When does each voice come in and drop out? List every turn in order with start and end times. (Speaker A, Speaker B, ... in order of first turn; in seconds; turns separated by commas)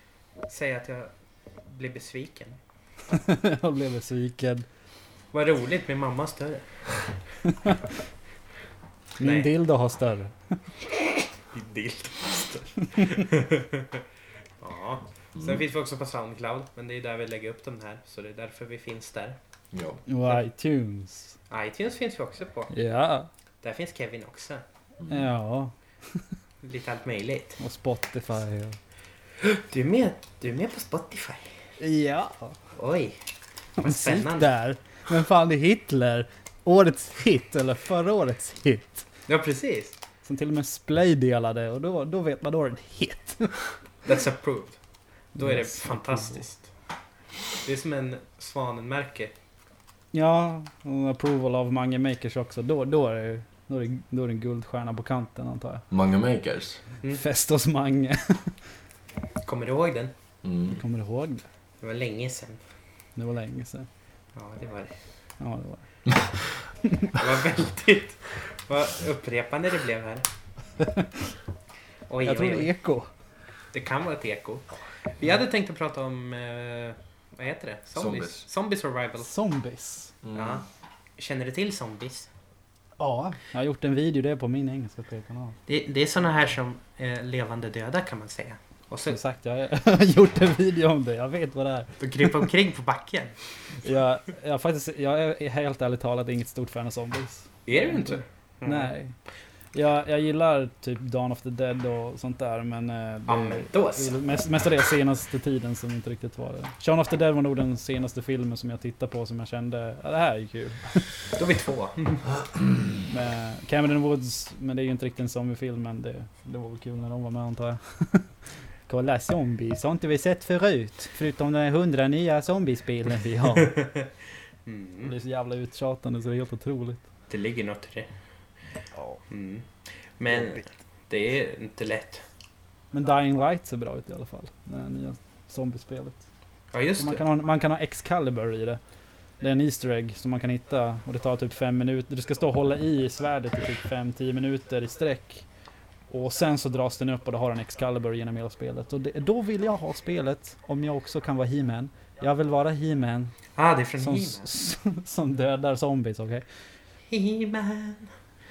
Speaker A: 0.5-1.1, Speaker A: 1.6-2.6, Speaker B: 3.1-4.7, Speaker A: 5.3-7.1, Speaker B: 7.5-7.8, Speaker B: 9.2-10.3, Speaker A: 9.2-9.5, Speaker A: 11.5-14.0, Speaker A: 14.6-19.4, Speaker C: 19.7-20.0, Speaker B: 20.1-21.3, Speaker A: 21.5-22.7, Speaker B: 22.7-23.3, Speaker A: 23.6-24.6, Speaker C: 25.0-25.3, Speaker B: 25.1-26.2, Speaker A: 26.6-27.6, Speaker B: 27.6-28.8, Speaker A: 29.4-31.6, Speaker B: 31.8-32.5, Speaker A: 32.8-33.2, Speaker A: 33.8-34.5, Speaker B: 33.8-39.0, Speaker A: 39.3-40.0, Speaker B: 40.2-43.7, Speaker A: 44.0-44.8, Speaker B: 45.4-46.4, Speaker A: 45.4-46.7, Speaker A: 47.6-49.3, Speaker B: 50.1-55.8, Speaker C: 55.9-56.8, Speaker B: 57.1-58.5, Speaker A: 59.5-60.1, Speaker C: 60.4-60.8, Speaker B: 60.7-61.5, Speaker A: 61.8-62.6, Speaker B: 63.2-63.9, Speaker A: 64.3-65.0, Speaker B: 65.4-65.8, Speaker A: 67.1-70.3, Speaker B: 70.8-71.3, Speaker A: 72.1-72.7, Speaker B: 72.2-73.1, Speaker A: 73.7-79.3, Speaker C: 78.0-78.5, Speaker B: 79.2-80.1, Speaker C: 80.2-80.6, Speaker A: 80.3-80.7, Speaker A: 81.2-82.3, Speaker B: 83.0-85.6, Speaker A: 85.7-89.2, Speaker B: 89.1-92.5, Speaker A: 92.0-93.3, Speaker B: 93.8-99.2, Speaker A: 97.7-98.9, Speaker B: 99.7-111.2, Speaker A: 103.3-104.2, Speaker A: 111.3-112.3, Speaker B: 113.0-118.3, Speaker B: 118.9-123.8, Speaker A: 123.6-124.1, Speaker A: 124.7-125.1, Speaker B: 125.0-127.0, Speaker A: 127.3-128.1, Speaker A: 129.3-132.2, Speaker B: 132.9-136.2, Speaker A: 136.7-137.2, Speaker B: 137.0-138.8, Speaker B: 139.4-145.4, Speaker B: 146.1-153.4, Speaker A: 153.6-154.5, Speaker B: 154.0-156.4, Speaker A: 157.1-158.1